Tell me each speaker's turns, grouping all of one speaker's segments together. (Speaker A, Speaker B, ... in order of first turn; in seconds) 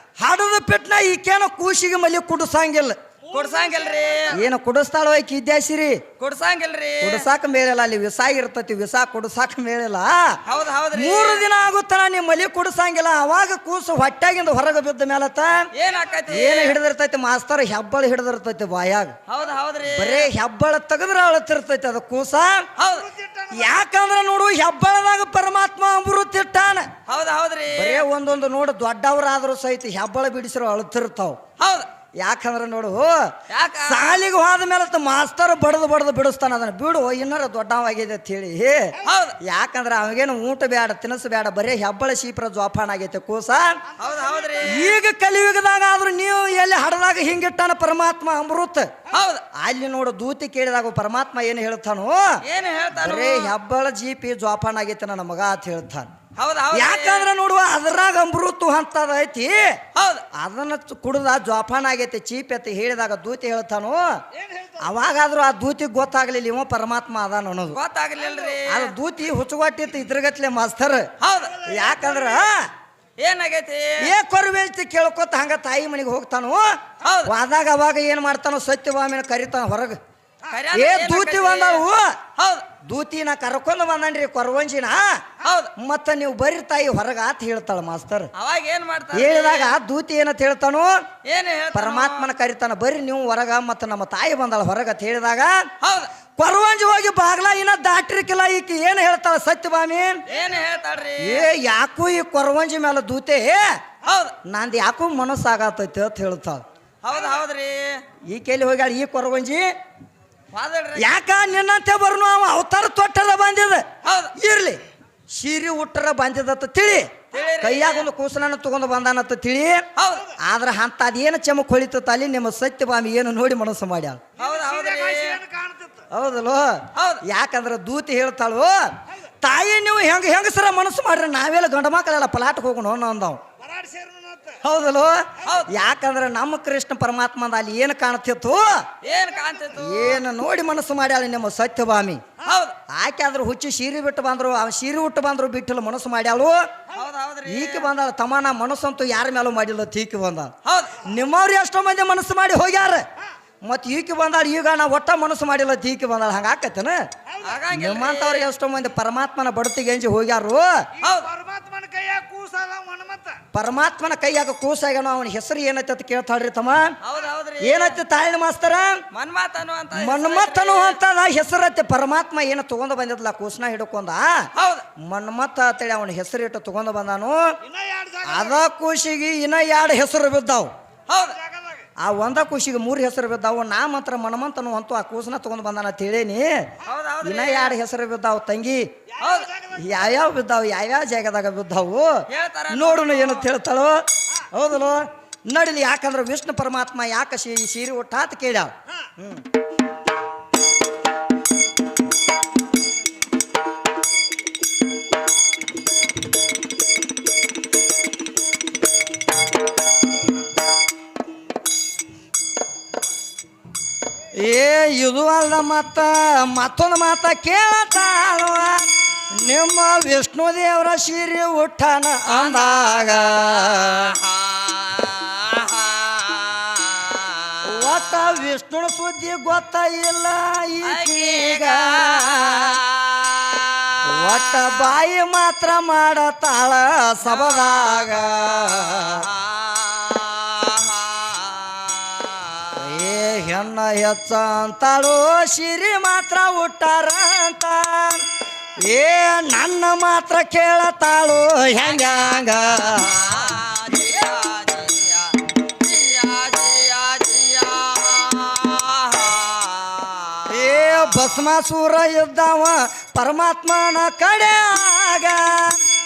Speaker A: 0.2-3.0, 4.3-6.0, 7.0-10.4, 10.9-15.7, 16.3-19.2, 19.9-22.7, 23.5-26.9, 27.7-31.4, 32.2-43.8, 44.6-48.9, 49.5-52.4, 53.0-56.1, 56.7-59.8, 60.3-64.0, 64.8-67.8, 68.7-71.1, 71.6-72.7, 74.0-76.7, 77.2-80.0, 80.7-82.2, 82.8-85.2, 85.8-88.3, 89.1-90.9, 91.7-95.7, 96.4-100.2, 101.2-103.8, 104.5-106.6, 108.3-109.7, 111.0-114.8, 115.3-119.9, 120.4-124.2, 126.1-128.7, 129.4-133.4, 134.6-138.8, 139.8-142.2, 142.9-146.6, 147.5-153.0, 153.6-157.0, 157.7-160.8, 163.5-166.9, 167.6-169.0, 169.9-177.4, 178.2-180.7, 182.0-186.5, 187.2-188.9, 189.8-194.0, 194.5-199.4, 214.4-224.2, 227.6-232.8, 234.0-239.3, 242.7-248.2, 248.8-253.5, 260.5-265.8
Speaker B: 3.3-4.4, 6.2-7.3, 10.5-11.4, 15.7-16.8, 19.3-20.3, 22.8-23.1, 27.1-28.1, 31.6-31.9, 33.5-34.1, 39.0-39.4, 44.0-45.0, 49.1-49.5, 52.4-53.5, 56.4-57.3, 60.0-60.3, 67.7-68.9, 71.2-71.7, 73.2-74.1, 77.0-77.3, 80.5-81.8, 82.4-82.7, 85.4-85.7, 88.3-89.8, 91.2-92.3, 95.8-96.1, 100.3-101.5, 104.0-104.4, 107.0-108.0, 110.5-111.2, 114.0-114.3, 117.3-118.1, 120.0-120.3, 124.4-125.4, 127.0-127.2, 135.4-135.7, 139.0-140.2, 142.4-142.8, 146.9-147.9, 150.7-151.0, 157.4-158.5, 161.0-161.3, 167.0-168.0, 169.1-171.0, 174.6-174.9, 181.1-181.4, 186.8-187.8, 189.2-189.5, 192.3-193.5, 222.3-227.6, 230.8-234.1, 237.4-237.7, 239.1-242.7, 251.9-252.3, 252.9-260.5
Speaker C: 3.3-4.1, 23.1-23.5, 64.4-64.8, 124.4-126.1, 133.6-134.6, 161.0-163.4, 177.7-178.5, 181.4-181.8, 189.2-189.9